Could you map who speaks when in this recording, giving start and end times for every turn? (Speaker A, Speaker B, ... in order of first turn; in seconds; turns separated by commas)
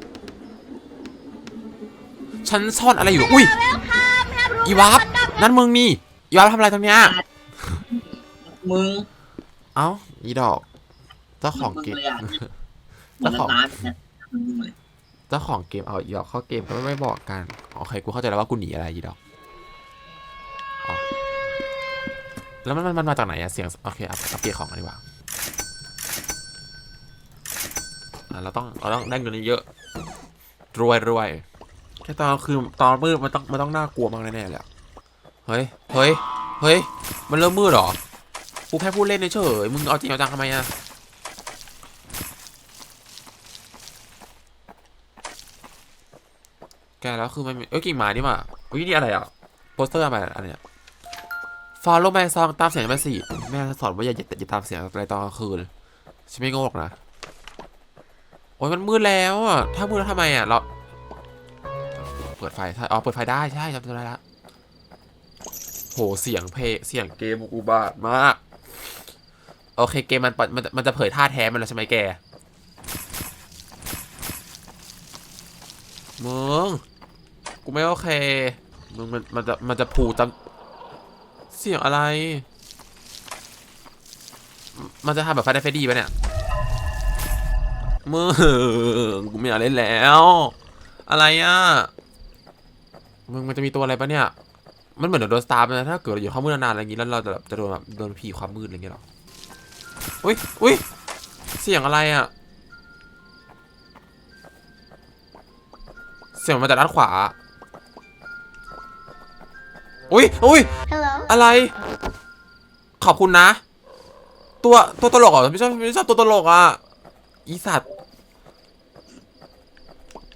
Speaker A: 2.4-3.6, Speaker B: 4.2-4.9, Speaker A: 4.6-7.2, Speaker B: 6.9-7.2, Speaker B: 7.8-9.1, Speaker A: 9.8-10.6, Speaker A: 11.4-12.5, Speaker B: 11.5-12.4, Speaker A: 13.2-13.6, Speaker B: 13.2-14.8, Speaker A: 15.3-19.2, Speaker A: 22.6-25.0, Speaker A: 28.3-29.6, Speaker A: 30.7-31.4, Speaker A: 32.0-34.6, Speaker A: 35.5-38.0, Speaker A: 38.7-40.7, Speaker A: 47.0-50.6, Speaker A: 51.8-55.7, Speaker A: 56.3-57.0, Speaker A: 58.6-60.6, Speaker A: 62.2-64.2, Speaker A: 65.9-68.4, Speaker A: 69.8-72.2, Speaker A: 76.2-76.8, Speaker A: 77.6-80.3, Speaker A: 81.5-82.5, Speaker A: 84.7-86.1, Speaker A: 88.0-90.5, Speaker A: 91.1-91.9, Speaker A: 93.3-94.3, Speaker A: 95.0-99.0, Speaker A: 100.2-100.8, Speaker A: 101.6-102.3, Speaker A: 106.3-107.3, Speaker A: 110.1-111.7, Speaker A: 113.0-113.6, Speaker A: 114.6-116.8, Speaker A: 117.5-117.8